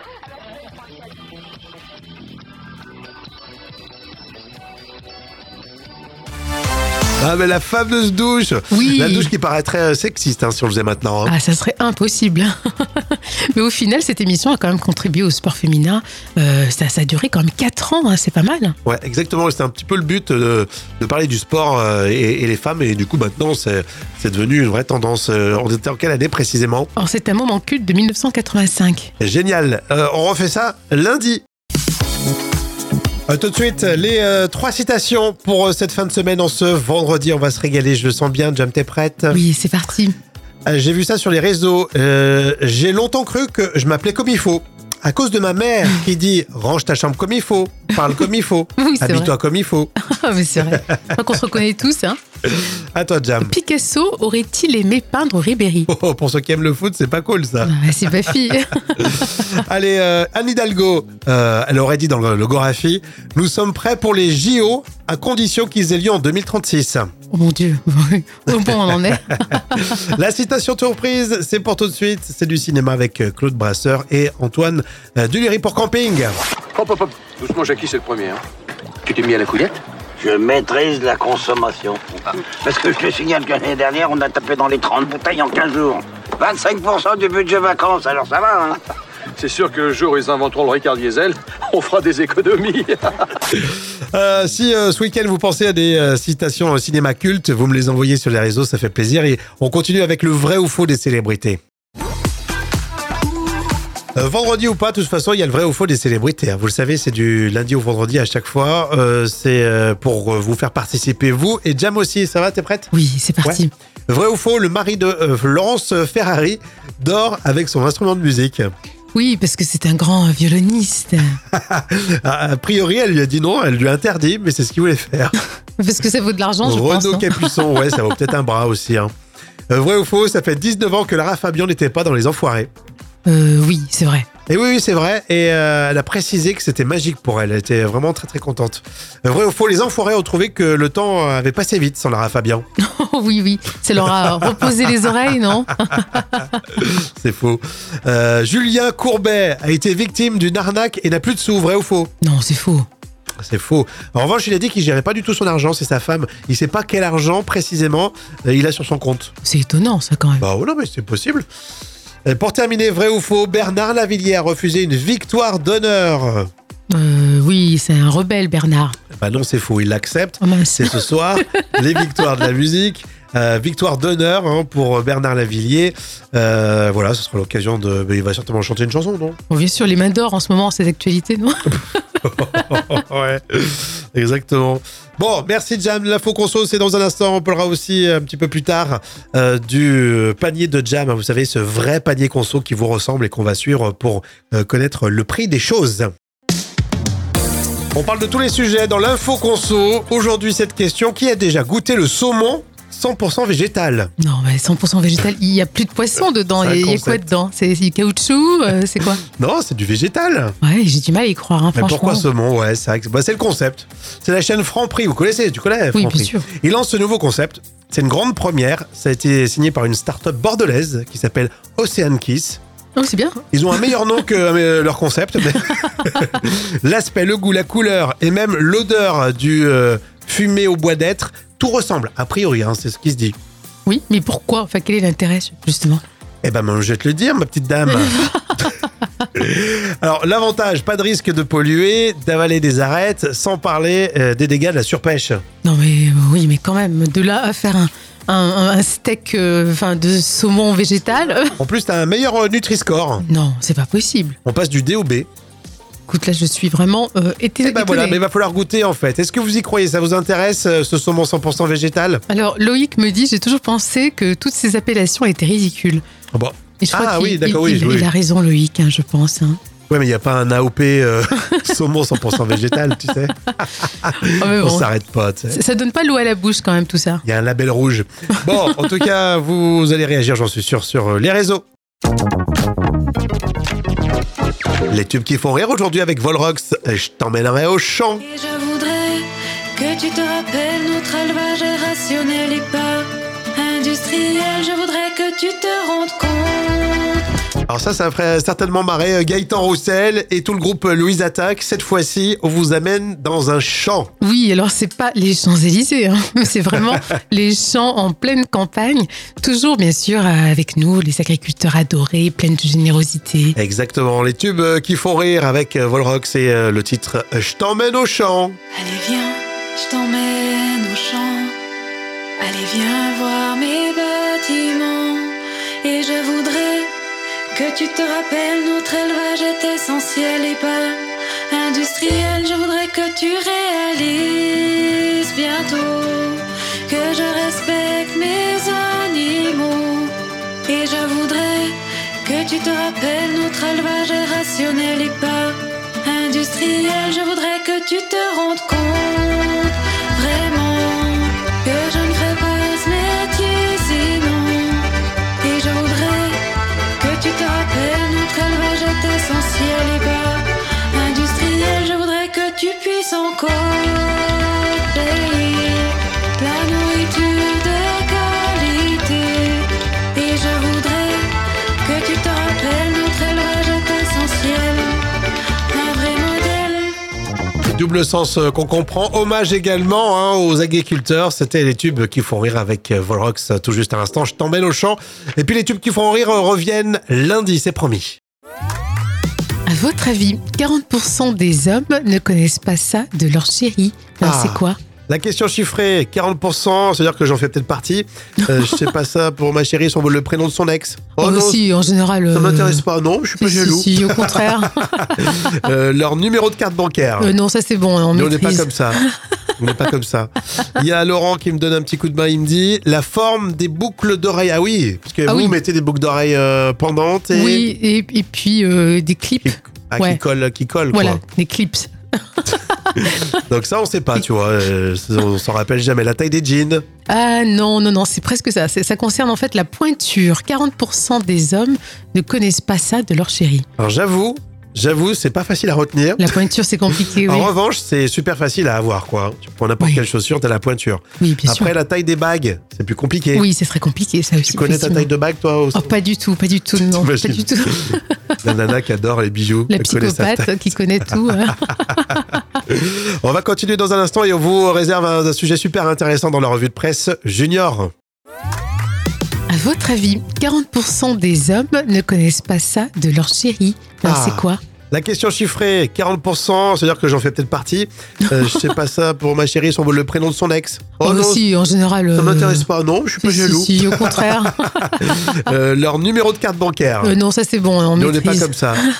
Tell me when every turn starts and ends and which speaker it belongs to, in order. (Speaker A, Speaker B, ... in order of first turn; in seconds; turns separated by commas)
Speaker A: 7.2-11.3, Speaker B: 8.7-9.3, Speaker B: 11.2-18.7, Speaker A: 18.8-26.9, Speaker B: 26.9-29.1, Speaker A: 29.2-31.4, Speaker A: 33.3-39.4, Speaker B: 39.3-40.1, Speaker A: 40.7-49.9, Speaker B: 48.8-49.3, Speaker B: 50.0-52.2, Speaker A: 52.4-53.5, Speaker B: 53.4-55.9, Speaker A: 55.9-58.4, Speaker B: 57.6-58.9, Speaker A: 59.0-67.1, Speaker B: 67.3-69.6, Speaker A: 69.3-76.3, Speaker C: 76.8-78.4, Speaker C: 79.1-79.8, Speaker D: 80.2-88.8, Speaker C: 89.4-93.2, Speaker A: 93.5-101.6, Speaker A: 104.2-112.9, Speaker B: 112.9-113.7, Speaker A: 113.4-118.7, Speaker B: 119.1-121.4, Speaker A: 121.5-125.3, Speaker B: 125.8-127.5, Speaker A: 126.6-129.1, Speaker A: 129.7-132.7, Speaker B: 133.2-134.3, Speaker A: 134.5-142.6, Speaker B: 142.8-146.6, Speaker A: 144.2-144.7, Speaker A: 145.9-152.1, Speaker B: 152.2-152.8, Speaker A: 153.4-159.3, Speaker B: 159.4-160.4, Speaker A: 160.4-161.4, Speaker A: 162.3-166.5, Speaker B: 166.9-169.0, Speaker A: 169.1-179.4, Speaker B: 170.4-171.0, Speaker B: 179.5-182.8, Speaker A: 182.3-196.1, Speaker A: 197.9-204.1, Speaker B: 204.2-209.2, Speaker A: 206.6-207.3, Speaker A: 209.2-210.5, Speaker B: 210.6-212.2, Speaker A: 211.7-222.6, Speaker B: 215.9-216.4, Speaker B: 223.0-223.4, Speaker A: 223.5-233.3, Speaker B: 233.8-236.0, Speaker A: 236.4-238.7, Speaker B: 237.9-238.3, Speaker A: 239.3-245.4, Speaker B: 245.6-251.6, Speaker A: 251.4-253.2, Speaker B: 253.2-254.4, Speaker A: 254.4-255.3, Speaker B: 256.1-258.2, Speaker A: 257.6-262.2, Speaker B: 262.3-266.0, Speaker A: 266.3-268.1, Speaker B: 266.8-269.6, Speaker A: 269.9-275.6, Speaker B: 274.3-274.9, Speaker B: 275.5-277.2, Speaker A: 277.2-281.6, Speaker A: 284.9-288.2, Speaker E: 288.2-297.2, Speaker A: 297.7-304.1, Speaker B: 304.2-313.6, Speaker A: 313.6-318.6, Speaker E: 318.8-321.5, Speaker E: 322.4-326.9, Speaker E: 327.5-340.1, Speaker E: 340.7-354.9, Speaker E: 355.4-356.4, Speaker E: 357.0-371.3, Speaker E: 371.8-375.0, Speaker E: 375.7-376.9, Speaker A: 377.6-388.2, Speaker B: 389.7-394.8, Speaker A: 394.2-401.6, Speaker B: 401.2-402.8, Speaker A: 402.3-407.3, Speaker B: 403.4-405.0, Speaker B: 407.2-408.7, Speaker A: 408.1-409.0, Speaker A: 409.6-417.7, Speaker B: 415.3-415.6, Speaker B: 417.3-420.2, Speaker A: 419.4-421.2, Speaker B: 420.9-423.2, Speaker A: 423.5-426.8, Speaker B: 427.1-433.6, Speaker A: 433.8-436.4, Speaker B: 436.2-437.5, Speaker A: 437.1-443.5, Speaker B: 441.2-441.7, Speaker B: 443.3-445.1, Speaker A: 444.5-445.9, Speaker B: 445.7-448.1, Speaker A: 446.9-450.5, Speaker B: 449.7-452.4, Speaker A: 451.1-457.9, Speaker B: 459.5-464.6, Speaker A: 464.0-471.4, Speaker B: 468.2-468.7, Speaker B: 471.0-472.6, Speaker A: 472.1-477.1, Speaker B: 473.2-475.4, Speaker B: 477.0-478.9, Speaker A: 477.9-478.8